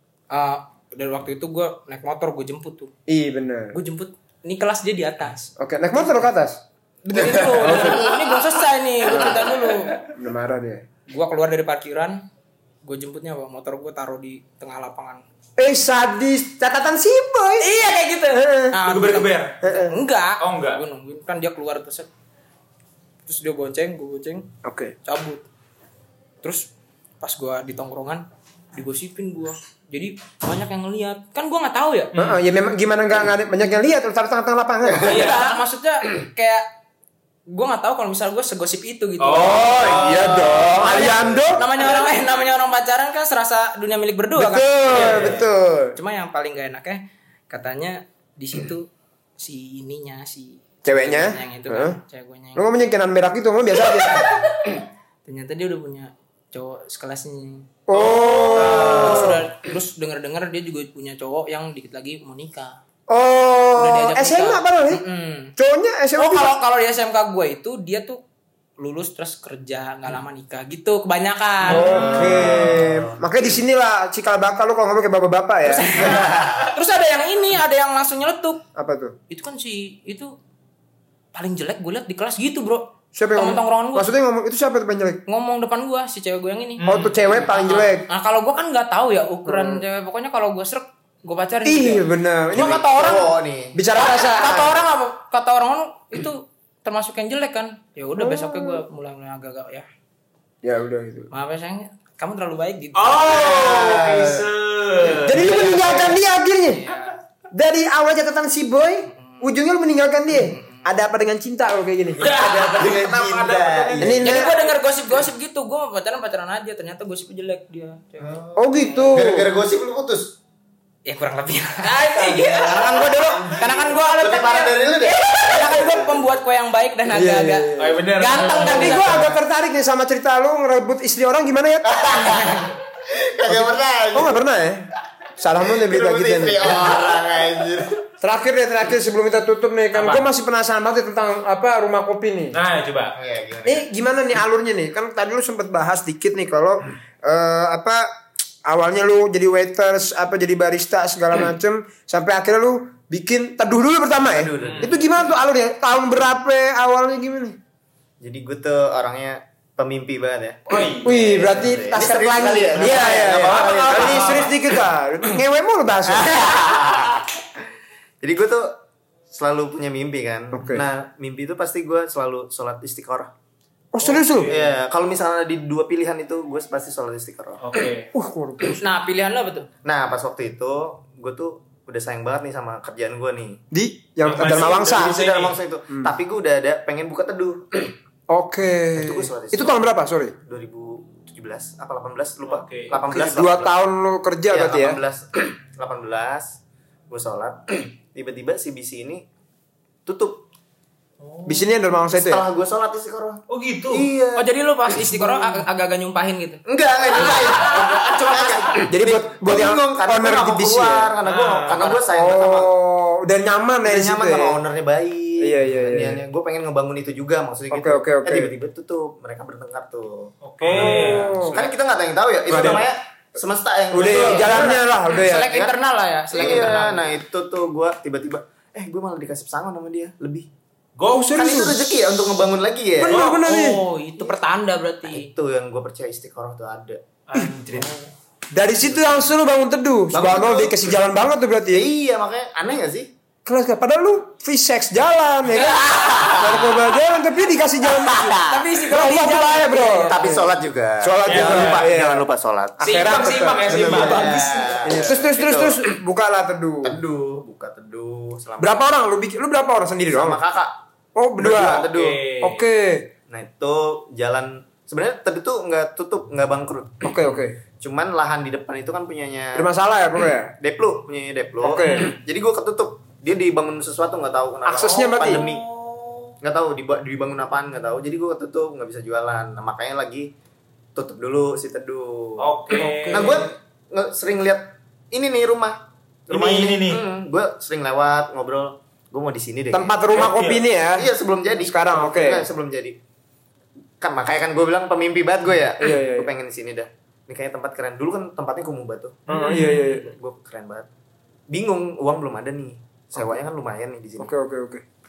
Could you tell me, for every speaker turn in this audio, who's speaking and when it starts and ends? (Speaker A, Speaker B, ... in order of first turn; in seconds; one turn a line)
Speaker A: 0.3-2.9
Speaker B: 3.1-3.8
Speaker A: 3.7-5.5
Speaker B: 5.6-6.6
Speaker A: 7.0-10.0
Speaker B: 7.1-8.2
Speaker B: 9.1-10.8
Speaker A: 11.1-12.2
Speaker A: 12.8-15.2
Speaker B: 15.6-17.7
Speaker A: 17.6-22.1
Speaker B: 18.3-18.8
Speaker C: 18.8-19.6
Speaker B: 19.6-20.0
Speaker C: 20.4-20.8
Speaker A: 23.2-24.4
Speaker B: 24.6-24.9
Speaker A: 25.0-25.4
Speaker A: 26.4-26.7
Speaker A: 27.2-32.1
Speaker C: 32.1-32.4
Speaker B: 32.1-35.5
Speaker D: 34.9-35.3
Speaker A: 35.0-36.6
Speaker A: 37.5-45.3
Speaker C: 39.2-41.1
Speaker B: 39.3-41.6
Speaker D: 41.1-41.4
Speaker B: 44.4-45.9
Speaker C: 44.9-45.4
Speaker A: 45.9-52.6
Speaker B: 50.8-52.0
Speaker B: 52.5-54.4
Speaker A: 55.2-57.7
Speaker B: 57.9-59.3
Speaker C: 57.9-59.1
Speaker D: 58.5-59.4
Speaker A: 58.6-62.8
Speaker B: 63.1-65.0
Speaker A: 63.8-65.5
Speaker B: 65.6-66.5
Speaker A: 66.2-68.2
Speaker A: 68.8-72.4
Speaker B: 71.6-76.2
Speaker D: 71.7-73.2
Speaker A: 75.7-78.6
Speaker D: 76.0-76.7
Speaker B: 78.8-79.1
Speaker A: 79.3-80.3
Speaker A: 81.3-84.1
Speaker B: 83.1-85.2
Speaker A: 85.3-93.3
Speaker C: 86.8-87.1
Speaker B: 86.8-88.0
Speaker B: 89.5-89.8
Speaker B: 91.6-92.8
Speaker D: 92.5-93.8
Speaker B: 93.7-94.8
Speaker A: 93.9-99.8
Speaker B: 98.2-98.8
Speaker B: 100.6-101.3
Speaker A: 101.3-103.3
Speaker C: 103.0-105.5
Speaker D: 103.2-104.4
Speaker D: 105.2-106.2
Speaker B: 105.2-106.8
Speaker A: 106.7-107.2
Speaker B: 107.5-112.4
Speaker A: 109.1-109.4
Speaker A: 110.5-110.8
Speaker C: 112.2-114.7
Speaker D: 112.2-114.3
Speaker B: 114.0-114.5
Speaker A: 114.2-118.4
Speaker D: 118.2-120.3
Speaker B: 118.5-119.5
Speaker A: 121.0-129.3
Speaker C: 121.9-122.3
Speaker D: 122.2-126.2
Speaker B: 127.1-132.5
Speaker C: 127.8-129.2
Speaker D: 131.9-134.3
Speaker B: 133.5-137.0
Speaker D: 135.8-138.0
Speaker B: 138.2-142.6
Speaker C: 139.9-140.2
Speaker C: 142.5-143.1
Speaker D: 143.2-143.8
Speaker B: 143.6-148.0
Speaker B: 148.7-157.6
Speaker D: 154.3-154.9
Speaker C: 154.6-154.9
Speaker D: 158.2-164.5
Speaker C: 160.7-161.4
Speaker B: 161.0-166.6
Speaker C: 162.8-164.6
Speaker D: 166.1-167.3
Speaker D: 168.2-168.7
Speaker D: 169.3-173.3
Speaker B: 170.5-170.8
Speaker B: 173.9-174.5
Speaker C: 174.0-174.7
Speaker D: 174.5-177.6
Speaker C: 177.6-178.1
Speaker B: 178.1-178.8
Speaker A: 178.8-179.7
Speaker D: 179.8-183.6
Speaker B: 183.7-185.2
Speaker C: 184.2-185.6
Speaker D: 184.4-187.9
Speaker B: 188.3-190.3
Speaker D: 188.9-189.8
Speaker D: 190.4-193.7
Speaker C: 192.4-193.0
Speaker B: 193.1-195.0
Speaker D: 194.5-196.5
Speaker D: 197.1-199.2
Speaker D: 200.1-200.4
Speaker C: 201.2-201.7
Speaker B: 201.4-202.4
Speaker D: 202.1-204.5
Speaker C: 203.5-204.1
Speaker A: 204.3-208.8
Speaker D: 205.1-205.5
Speaker D: 206.7-212.7
Speaker B: 208.9-211.1
Speaker C: 211.2-211.9
Speaker A: 211.7-212.0
Speaker B: 212.1-214.6
Speaker D: 213.8-225.7
Speaker B: 215.4-216.2
Speaker B: 217.7-218.5
Speaker C: 220.4-221.7
Speaker B: 220.6-221.6
Speaker B: 222.5-222.9
Speaker B: 223.9-225.6
Speaker A: 224.2-227.1
Speaker D: 226.3-230.5
Speaker B: 226.4-226.7
Speaker C: 231.0-231.7
Speaker B: 231.1-232.0
Speaker D: 231.3-233.2
Speaker B: 233.0-233.8
Speaker C: 233.1-233.4
Speaker A: 233.2-235.3
Speaker D: 235.0-237.0
Speaker C: 237.3-238.1
Speaker B: 238.5-241.9
Speaker D: 240.1-240.9
Speaker D: 241.7-243.1
Speaker B: 243.4-250.5
Speaker D: 245.5-246.8
Speaker D: 247.8-248.6
Speaker A: 248.1-250.4
Speaker D: 249.9-255.9
Speaker B: 251.0-252.2
Speaker C: 251.2-251.9
Speaker B: 252.8-254.3
Speaker C: 252.8-254.7
Speaker A: 252.9-254.7
Speaker B: 254.8-257.0
Speaker D: 256.8-258.7
Speaker B: 258.6-260.4
Speaker D: 260.1-260.8
Speaker B: 261.1-261.9
Speaker D: 261.4-262.2
Speaker C: 261.8-262.6
Speaker B: 262.4-263.1
Speaker D: 263.3-267.1
Speaker B: 267.0-267.6
Speaker D: 267.8-269.7
Speaker B: 269.5-270.5
Speaker D: 270.6-275.6
Speaker B: 271.6-272.1
Speaker C: 271.8-272.2
Speaker B: 274.6-275.4
Speaker C: 275.2-276.3
Speaker D: 276.4-280.3
Speaker D: 280.9-282.5
Speaker C: 282.4-283.4
Speaker A: 282.7-283.4
Speaker D: 283.1-289.9
Speaker C: 286.3-287.0
Speaker B: 289.7-291.1
Speaker C: 290.1-290.6
Speaker D: 290.9-292.9
Speaker B: 291.6-292.4
Speaker D: 294.0-300.9
Speaker B: 295.8-296.3
Speaker C: 299.3-300.0
Speaker B: 299.3-300.1
Speaker D: 301.5-304.3
Speaker B: 304.2-304.8